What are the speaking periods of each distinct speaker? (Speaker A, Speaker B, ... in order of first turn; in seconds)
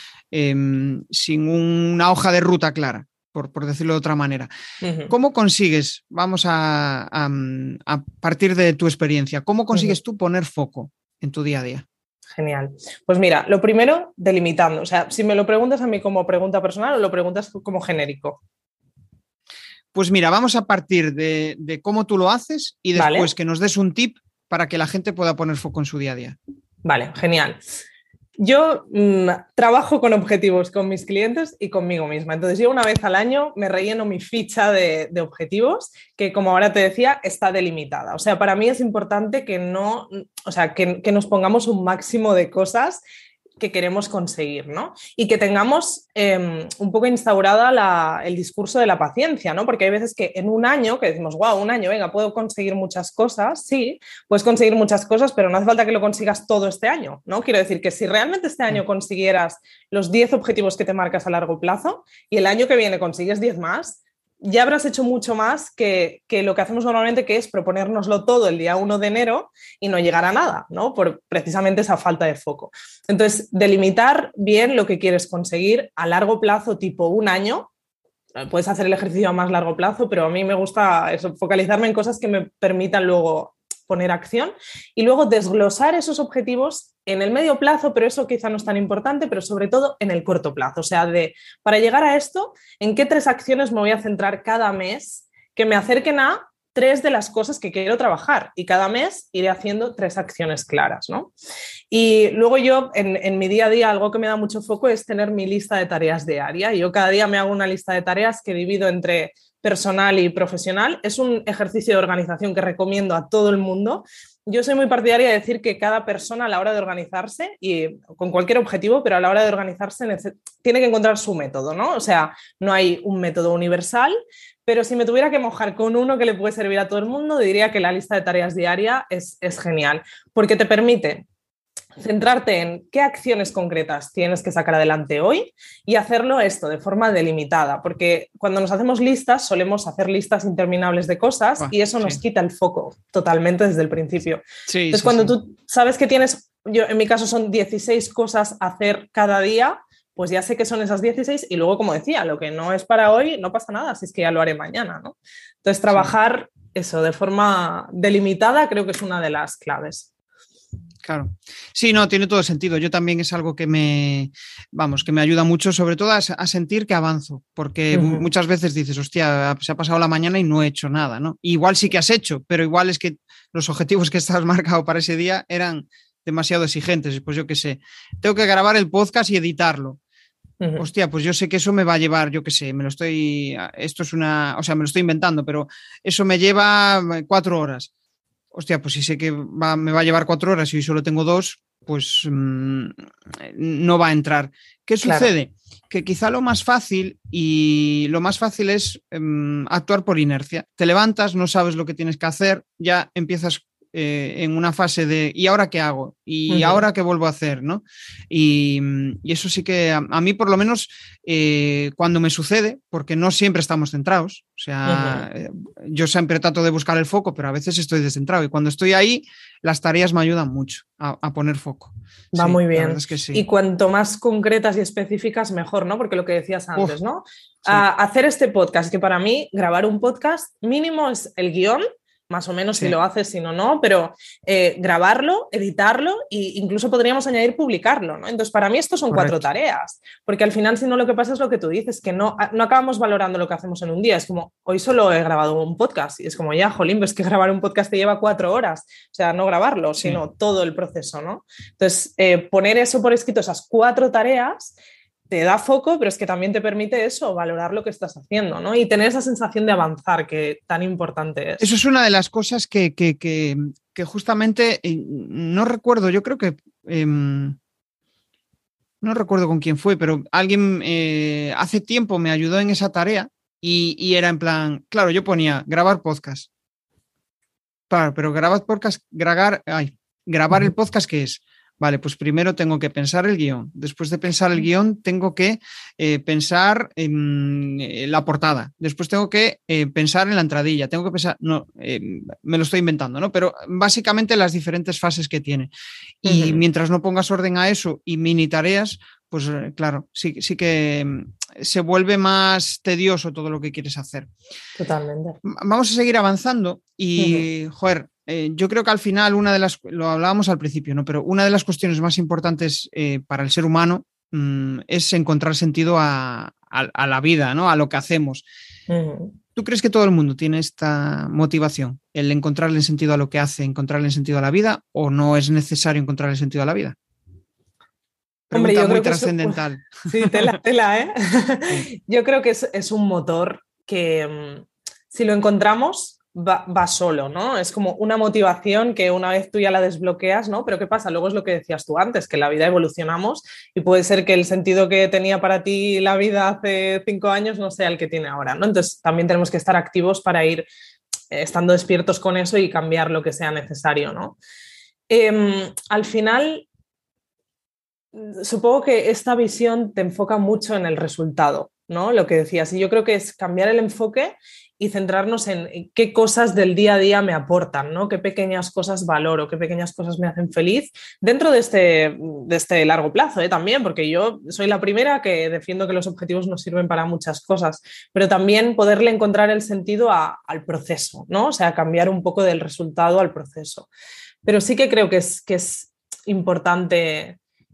Speaker A: 0.3-4.5, 5.1-11.8, 19.9-26.4, 141.6-142.2, 144.7-145.3, 161.0-180.0, 180.8-187.9, 188.5-223.4, 239.1-239.4, 261.6-267.6, 269.0-276.5, 277.9-295.7, 296.2-304.3, 305.4-318.4, 319.5-326.9, 328.5-330.6
Speaker B: 4.8-5.1, 12.3-18.4, 22.9-23.3, 26.8-27.6, 28.4-43.0, 43.6-77.7, 78.4-101.3, 101.9-124.1, 124.7-131.2, 132.0-144.4, 144.9-160.1, 167.9-168.3, 180.6-180.8, 195.0-195.3, 206.5-206.8, 214.8-215.2, 222.3-254.7, 255.3-261.6, 296.2-296.6, 304.8-305.4, 307.2-307.4, 318.9-319.4, 328.5-350.7, 351.3-354.4, 355.1-356.6, 358.1-383.9, 384.4-387.4